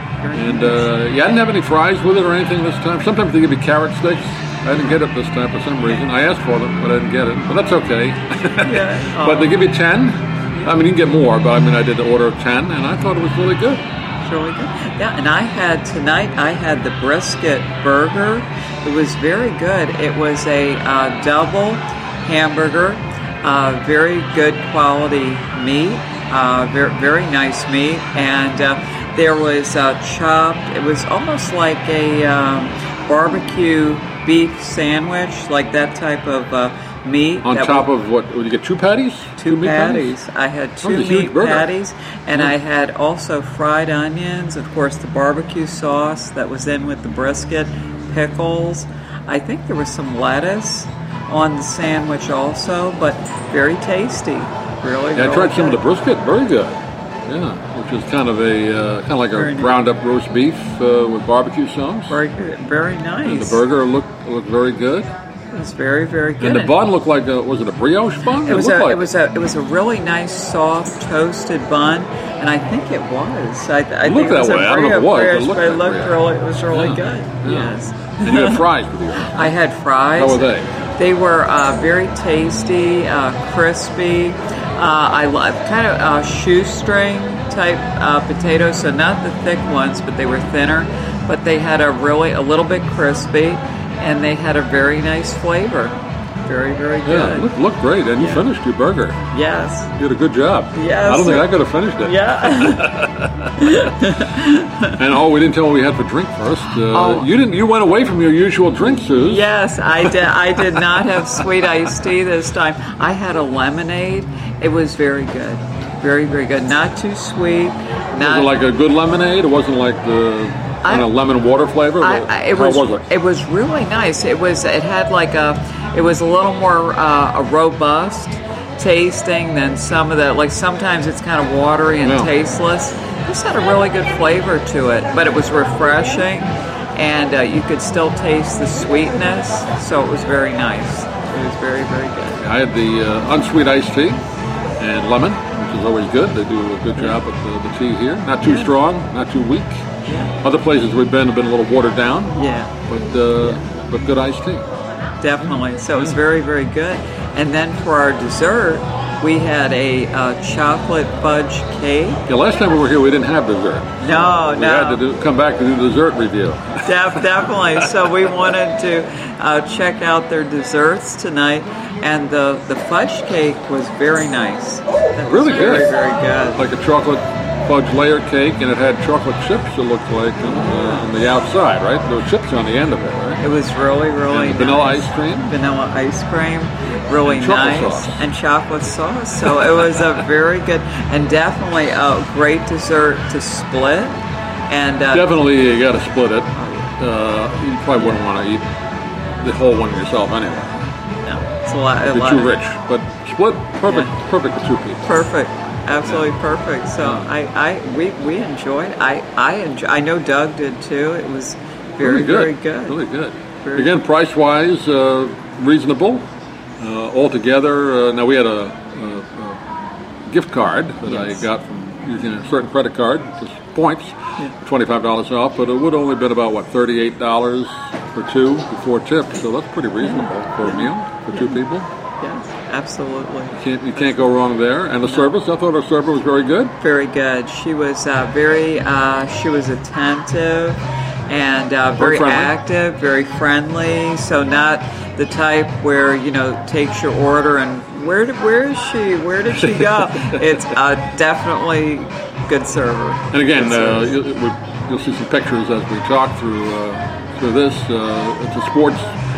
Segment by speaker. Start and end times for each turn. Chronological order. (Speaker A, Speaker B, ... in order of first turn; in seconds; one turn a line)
Speaker A: 0.2-0.9
Speaker B: 0.3-13.8
Speaker A: 8.6-9.6
Speaker A: 14.2-37.9
Speaker B: 37.4-40.1
Speaker A: 39.4-55.8
Speaker B: 40.8-41.7
Speaker B: 55.1-62.2
Speaker A: 59.3-59.7
Speaker A: 62.1-63.6
Speaker B: 63.2-65.1
Speaker A: 65.5-66.8
Speaker B: 66.4-69.1
Speaker A: 68.4-78.6
Speaker B: 74.0-76.2
Speaker B: 76.7-79.5
Speaker A: 79.2-97.5
Speaker B: 80.2-80.8
Speaker B: 97.0-99.2
Speaker A: 98.2-98.5
Speaker A: 99.3-99.9
Speaker B: 100.0-103.5
Speaker A: 100.7-105.0
Speaker B: 105.0-109.5
Speaker A: 106.9-107.3
Speaker A: 109.2-118.5
Speaker B: 110.7-111.4
Speaker B: 118.2-123.1
Speaker A: 120.8-121.1
Speaker A: 122.0-142.4
Speaker B: 132.0-132.3
Speaker B: 142.4-144.2
Speaker B: 144.8-149.8
Speaker A: 148.4-148.7
Speaker A: 150.1-150.3
Speaker B: 150.4-152.4
Speaker A: 152.3-152.7
Speaker B: 152.9-154.7
Speaker A: 155.2-162.2
Speaker B: 155.5-156.2
Speaker B: 162.3-167.9
Speaker A: 164.0-165.0
Speaker A: 166.8-176.7
Speaker B: 175.2-175.9
Speaker B: 176.6-183.4
Speaker A: 180.5-181.1
Speaker A: 183.4-194.2
Speaker B: 184.3-185.5
Speaker B: 187.2-188.2
Speaker A: 194.7-195.4
Speaker B: 195.1-198.6
Speaker A: 196.6-196.9
Speaker B: 199.4-200.7
Speaker A: 201.2-202.6
Speaker B: 202.0-205.1
Speaker A: 203.9-204.1
Speaker A: 205.0-213.0
Speaker B: 207.0-207.3
Speaker B: 212.0-219.6
Speaker A: 213.6-213.9
Speaker B: 220.3-231.9
Speaker A: 221.1-221.4
Speaker A: 230.0-231.6
Speaker A: 232.2-234.3
Speaker B: 233.6-236.7
Speaker A: 235.0-235.3
Speaker A: 236.8-254.2
Speaker B: 242.0-242.5
Speaker B: 253.3-259.1